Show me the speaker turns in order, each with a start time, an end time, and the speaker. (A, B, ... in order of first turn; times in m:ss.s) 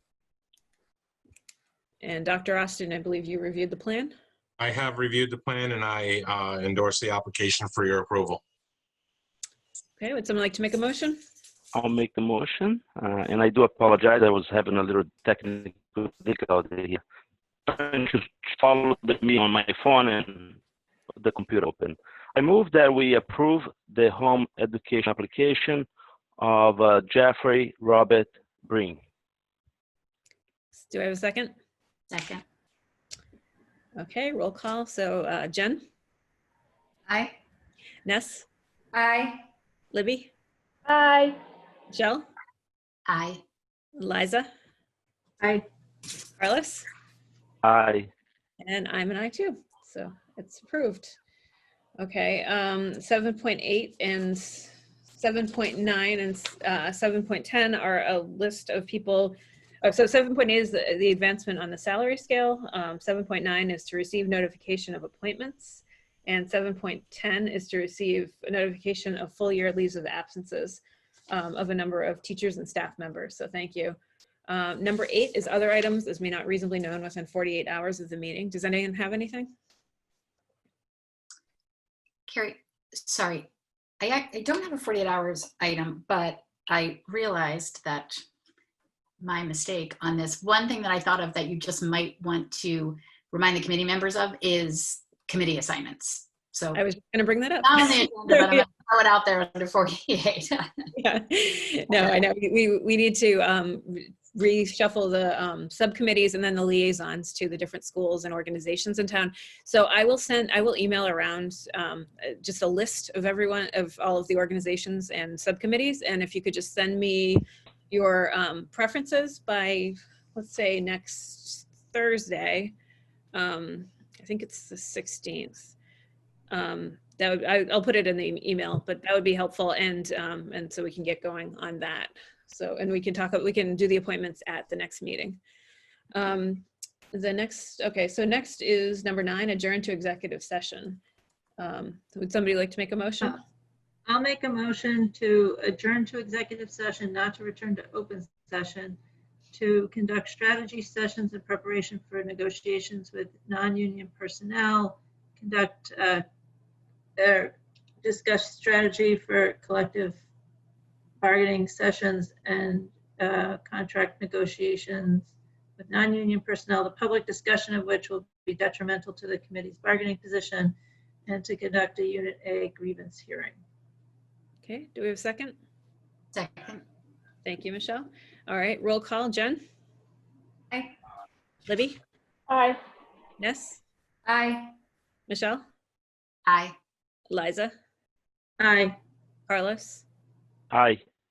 0:02.0-0:04.1 A
0:04.6-0:08.4 B
0:10.0-0:11.2 A
0:11.7-0:17.0 C
0:17.7-0:20.5 C
0:21.1-0:25.9 C
0:26.4-0:29.0 C
0:30.7-0:31.5 A
0:32.1-0:32.4 D
0:34.0-0:35.8 A
0:37.1-0:37.3 D
0:38.0-0:38.4 A
0:38.9-0:39.4 D
0:39.9-0:40.3 A
0:40.9-0:41.3 E
0:41.9-0:42.2 A
0:43.1-0:43.4 D
0:44.0-0:44.5 A
0:46.4-0:46.8 A
0:47.6-0:48.1 C
0:48.6-0:51.2 A
0:52.0-1:19.5 A
1:22.3-1:23.5 D
1:24.0-1:28.2 D
1:29.2-1:36.8 D
1:36.7-1:38.6 A
1:37.6-1:40.9 D
1:41.0-2:02.7 A
2:03.3-2:05.7 A
2:06.5-2:15.4 A
2:16.1-2:21.0 A
2:21.6-2:23.4 A
2:24.1-2:29.0 E
2:29.5-2:36.2 E
2:37.2-2:40.2 E
2:41.2-2:50.7 E
2:51.3-2:53.6 E
2:54.6-2:55.5 A
2:56.3-2:56.8 D
2:57.4-2:59.6 A
3:01.7-3:02.0 A
3:02.5-3:02.8 E
3:03.4-3:03.8 A
3:04.2-3:04.7 D
3:05.3-3:05.6 A
3:06.4-3:06.8 D
3:07.3-3:07.7 A
3:08.6-3:08.9 E
3:09.5-3:10.0 A
3:10.7-3:11.0 C